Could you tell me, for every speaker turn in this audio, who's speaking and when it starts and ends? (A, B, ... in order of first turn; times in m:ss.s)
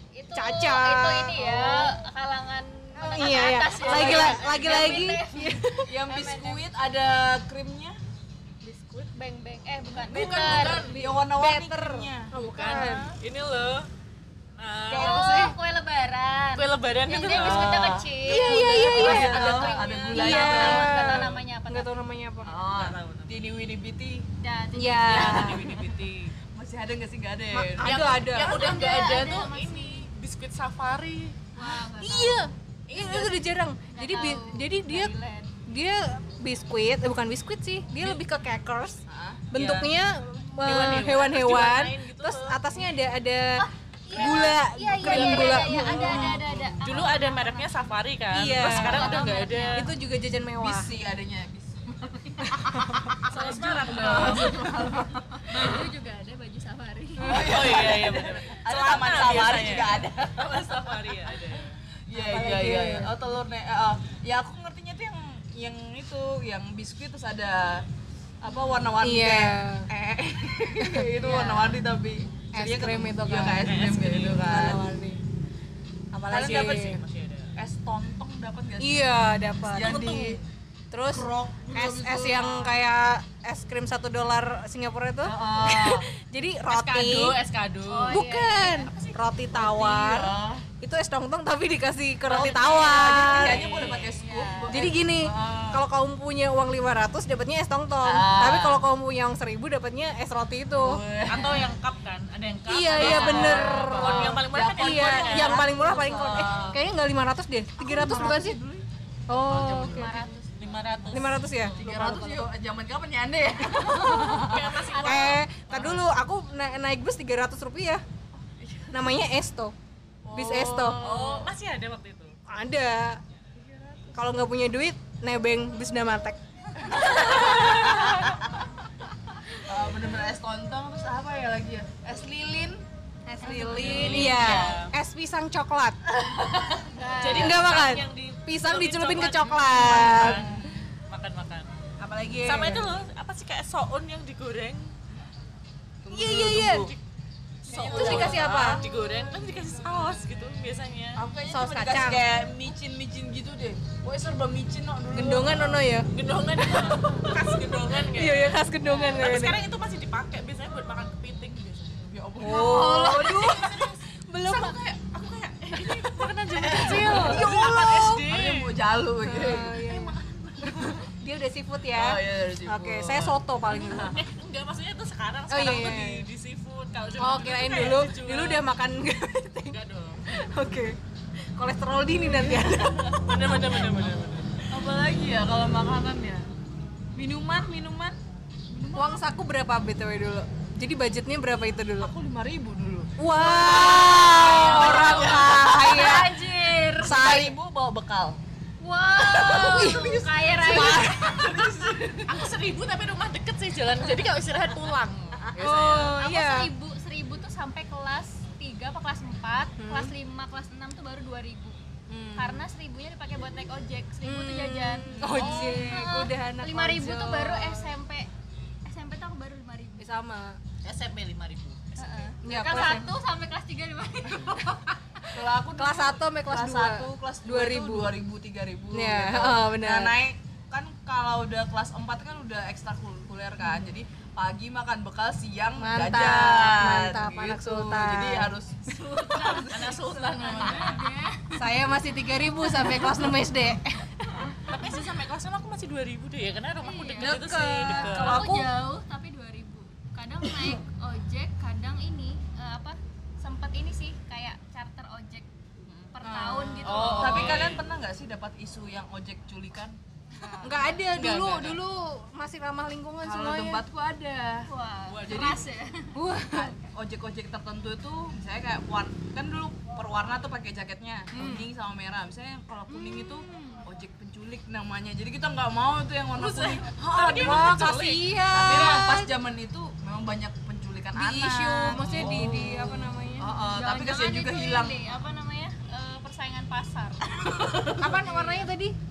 0:00.1-0:06.6 A
0:00.3-0:01.6 B
0:01.4-0:01.9 C
0:03.0-0:06.0 B
0:03.7-0:05.0 C
0:05.8-0:08.0 C
0:08.6-0:09.1 B
0:09.1-0:10.9 A
0:10.0-0:12.3 C
0:10.1-0:11.0 D
0:10.8-0:13.1 B
0:12.4-0:13.9 D
0:14.6-0:15.6 D
0:14.9-0:21.9 A
0:15.1-0:15.4 B
0:16.6-0:18.0 D
0:17.3-0:21.2 C
0:18.2-0:19.5 B
0:18.6-0:20.0 D
0:20.1-0:22.6 B
0:22.4-0:24.3 C
0:22.6-0:23.5 D
0:24.4-0:25.6 A
0:24.8-0:25.7 B
0:25.1-0:28.8 C
0:25.1-0:26.3 D
0:27.5-0:28.7 B
0:27.8-0:31.5 D
0:28.4-0:30.1 A
0:31.5-0:32.5 A
0:32.0-0:35.1 B
0:32.9-0:33.4 D
0:33.9-0:35.6 A
0:35.7-0:39.0 B
0:39.1-0:39.5 C
0:39.5-0:46.4 B
0:39.5-0:39.9 D
0:40.6-0:43.0 D
0:44.1-0:47.7 A
0:44.1-0:49.9 D
0:44.2-0:44.4 C
0:46.1-0:46.7 C
0:48.3-0:50.9 B
0:48.6-0:49.9 A
0:50.6-0:52.6 C
0:52.4-0:53.2 B
0:53.3-0:54.7 D
0:53.3-0:54.7 A
0:53.3-0:55.8 C
0:54.2-0:55.2 B
0:55.4-0:57.8 A
0:57.2-0:57.7 B
0:57.2-1:01.3 C
0:57.3-1:01.8 D
1:02.1-1:07.9 C
1:02.1-1:03.1 B
1:08.4-1:14.8 C
1:09.0-1:09.9 B
1:10.8-1:11.8 B
1:12.5-1:13.7 B
1:13.4-1:14.7 D
1:14.4-1:15.2 B
1:16.1-1:17.0 B
1:16.3-1:17.0 C
1:16.4-1:17.5 D
1:17.6-1:19.1 C
1:18.8-1:20.4 B
1:19.7-1:20.4 C
1:20.9-1:27.4 B
1:21.1-1:22.8 C
1:25.2-1:26.1 C
1:26.7-1:29.7 D
1:27.8-1:29.1 A
1:28.1-1:33.7 B
1:29.6-1:30.6 C
1:32.3-1:35.9 C
1:32.3-1:34.2 D
1:34.1-1:34.8 A
1:34.7-1:41.0 B
1:38.0-1:38.8 C
1:40.8-1:41.7 C
1:41.2-1:46.4 D
1:42.7-1:48.6 B
1:42.9-1:46.8 C
1:47.8-1:48.9 C
1:49.3-1:50.1 B
1:49.4-1:50.3 C
1:49.8-1:51.0 A
1:50.6-1:51.8 D
1:51.1-1:52.5 B
1:51.8-1:54.8 C
1:53.8-1:58.0 B
1:54.1-1:56.1 D
1:54.9-1:55.4 A
1:58.5-1:59.1 C
1:58.9-1:59.8 B
2:00.2-2:01.5 C
2:00.3-2:01.0 B
2:00.4-2:02.4 D
2:02.5-2:03.2 B
2:03.6-2:04.2 C
2:04.1-2:06.4 B
2:06.9-2:08.3 C
2:06.9-2:08.1 B
2:07.0-2:08.2 D
2:09.6-2:12.8 C
2:13.3-2:16.0 B
2:13.4-2:14.8 C
2:13.7-2:14.9 D
2:16.1-2:16.9 C
2:16.9-2:17.7 A
2:17.2-2:21.7 D
2:17.2-2:20.4 B
2:19.7-2:20.9 C
2:22.0-2:22.9 B
2:22.4-2:24.9 D
2:26.0-2:26.9 C
2:26.1-2:26.9 B
2:26.5-2:27.0 D
2:27.6-2:31.2 D
2:27.6-2:30.0 C
2:27.9-2:28.8 B
2:31.2-2:35.8 C
2:31.4-2:32.2 B
2:35.1-2:36.1 B
2:36.1-2:44.0 D
2:36.6-2:37.6 C
2:38.1-2:39.6 B
2:42.1-2:51.0 C
2:42.4-2:44.8 B
2:45.7-2:48.8 D
2:46.8-2:47.5 B
2:49.2-2:54.2 B
2:51.9-2:54.2 C
2:53.7-2:58.6 D
2:55.5-2:56.3 B
2:57.2-3:01.0 B
2:59.7-3:00.4 D
3:01.6-3:03.6 B
3:03.1-3:04.6 D
3:04.6-3:06.5 C
3:07.2-3:08.2 C
3:08.7-3:09.3 C
3:08.9-3:12.1 B
3:12.0-3:13.1 C
3:13.2-3:16.3 B
3:13.4-3:17.3 A
3:13.8-3:16.2 D
3:13.9-3:16.4 C
3:17.0-3:18.4 C
3:17.0-3:17.6 B
3:18.8-3:21.4 A
3:19.1-3:22.5 C
3:19.7-3:21.4 B
3:22.3-3:26.1 D
3:25.4-3:26.1 C
3:25.6-3:26.7 B
3:26.2-3:31.8 A
3:29.8-3:30.1 B
3:32.1-3:32.6 C
3:32.4-3:38.3 A
3:34.2-3:37.9 B
3:35.2-3:36.0 C
3:38.9-3:40.1 A
3:40.0-3:40.6 B
3:40.8-3:42.2 D
3:42.0-3:44.9 A
3:42.4-3:43.1 B
3:45.3-4:00.2 C
3:45.7-3:48.2 B
3:48.9-3:50.2 B
3:53.6-3:53.9 B
3:55.8-3:58.5 B
3:59.2-4:01.6 A
3:59.5-4:01.1 D
4:01.6-4:04.8 B
4:04.7-4:08.5 D
4:06.8-4:15.5 A
4:07.2-4:08.7 B
4:10.4-4:10.8 B
4:15.8-4:21.8 C
4:16.1-4:17.7 A
4:16.8-4:17.9 D
4:20.4-4:21.0 A
4:20.6-4:23.8 B
4:21.2-4:21.7 D
4:23.2-4:24.7 C
4:24.7-4:26.2 A
4:25.1-4:25.6 D
4:25.3-4:25.6 C
4:26.1-4:26.8 B
4:26.5-4:37.9 C
4:31.3-4:31.7 B
4:33.0-4:33.8 B
4:33.5-4:33.8 A
4:36.3-4:38.4 D
4:37.4-4:39.3 B
4:38.5-4:45.0 C
4:41.2-4:43.7 B
4:43.7-4:48.5 A
4:47.4-4:48.2 C
4:47.8-4:49.0 B